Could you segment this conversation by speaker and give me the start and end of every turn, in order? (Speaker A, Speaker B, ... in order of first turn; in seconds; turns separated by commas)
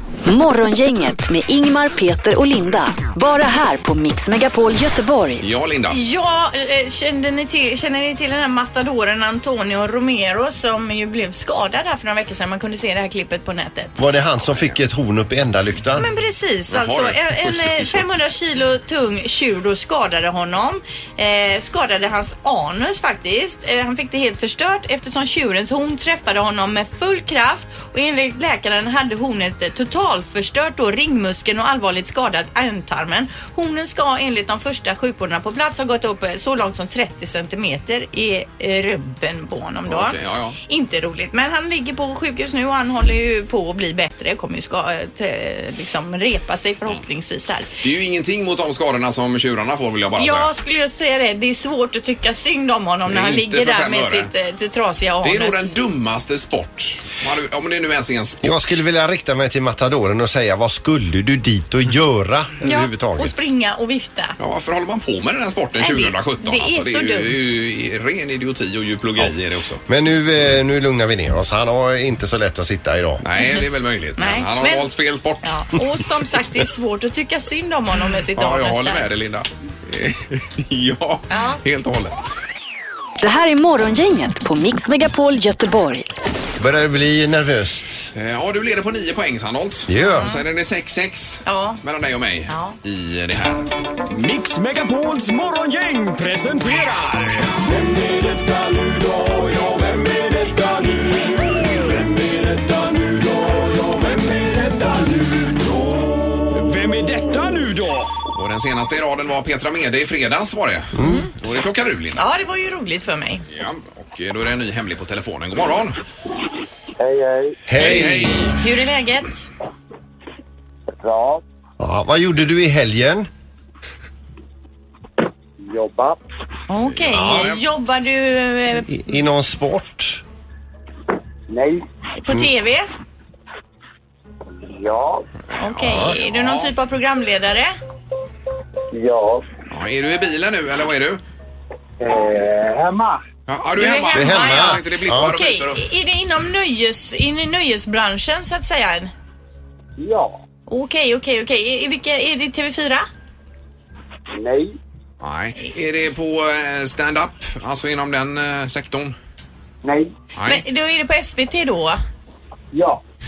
Speaker A: 0.2-5.5, Speaker B: 5.4-6.0, Speaker C: 5.9-13.9, Speaker D: 14.0-16.1, Speaker C: 16.0-47.7, Speaker B: 16.7-18.0, Speaker B: 39.9-40.6, Speaker B: 47.8-50.5, Speaker C: 50.2-55.7, Speaker B: 53.1-54.3, Speaker B: 55.2-58.6, Speaker D: 58.4-63.4, Speaker C: 62.6-64.4, Speaker B: 64.4-69.8, Speaker C: 65.8-67.5, Speaker D: 69.9-73.2, Speaker B: 73.2-75.6, Speaker C: 73.4-73.6, Speaker C: 74.2-74.9, Speaker C: 75.4-79.1, Speaker B: 78.4-82.2, Speaker C: 81.3-81.6, Speaker A: 83.2-86.1, Speaker D: 86.6-88.1, Speaker B: 88.1-93.7, Speaker D: 89.9-90.3, Speaker C: 90.1-90.4, Speaker C: 91.5-91.8, Speaker C: 92.5-92.8, Speaker E: 94.1-108.1, Speaker B: 108.3-112.2, Speaker D: 111.0-111.3, Speaker C: 111.0-111.3, Speaker C: 112.2-113.4, Speaker B: 113.5-116.0, Speaker F: 117.0-117.6, Speaker D: 117.7-118.5, Speaker B: 117.8-118.6, Speaker C: 118.6-119.3, Speaker F: 121.0-121.4, Speaker D: 121.8-123.3, Speaker F: 125.6-126.2, Speaker C: 126.7-128.9, Speaker B: 126.9-127.6, Speaker D: 127.1-127.5, Speaker D: 128.9-130.2, Speaker F: 131.5-131.8, Speaker C: 132.2-132.9, Speaker F: 134.5-135.2, Speaker B: 135.5-136.7, Speaker C: 135.6-137.8, Speaker F: 138.9-139.4, Speaker B: 139.7-141.2, Speaker F: 142.0-143.2, Speaker B: 143.5-145.8, Speaker C: 143.8-149.1, Speaker D: 144.1-145.3, Speaker F: 150.0-150.4, Speaker C: 150.7-153.1, Speaker F: 154.3-154.8, Speaker B: 155.2-159.2, Speaker F: 159.8-160.1, Speaker B: 160.4-160.6, Speaker C: 160.4-162.0, Speaker F: 162.7-163.0